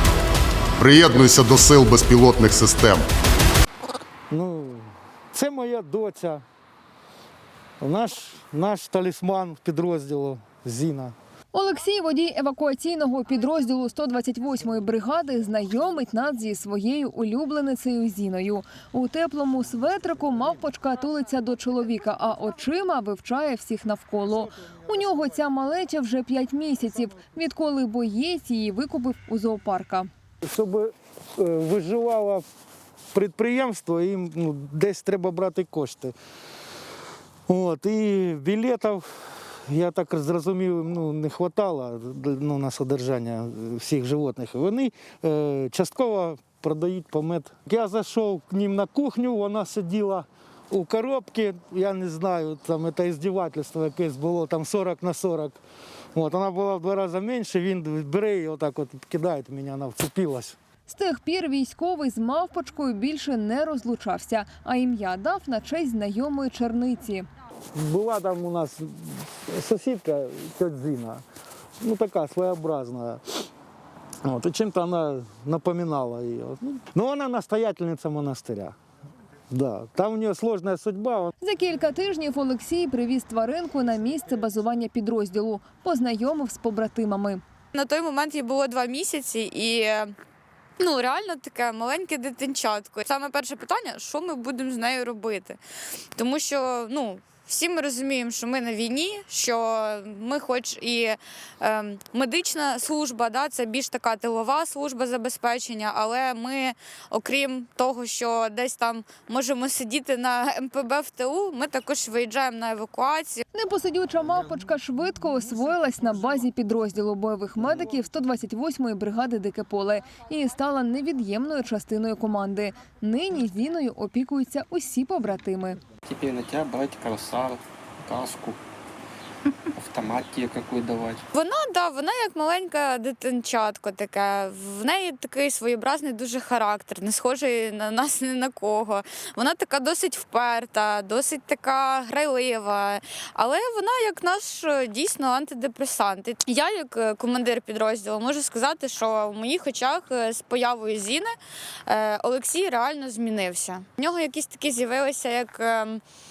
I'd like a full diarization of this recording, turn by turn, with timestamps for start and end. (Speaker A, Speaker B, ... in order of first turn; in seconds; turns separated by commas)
Speaker A: 0.8-3.0, Speaker B: 4.3-6.4, Speaker B: 7.8-11.2, Speaker C: 11.5-30.1, Speaker B: 30.4-32.5, Speaker B: 33.1-36.1, Speaker B: 37.5-55.6, Speaker B: 56.1-60.6, Speaker C: 60.9-67.3, Speaker B: 67.7-71.2, Speaker B: 71.8-73.2, Speaker B: 74.2-78.8, Speaker B: 79.5-81.3, Speaker C: 81.4-87.4, Speaker D: 87.7-90.1, Speaker D: 90.8-95.6, Speaker D: 96.2-113.4, Speaker C: 113.5-125.8, Speaker E: 126.1-128.6, Speaker E: 129.7-131.2, Speaker D: 131.3-151.3, Speaker D: 151.9-156.0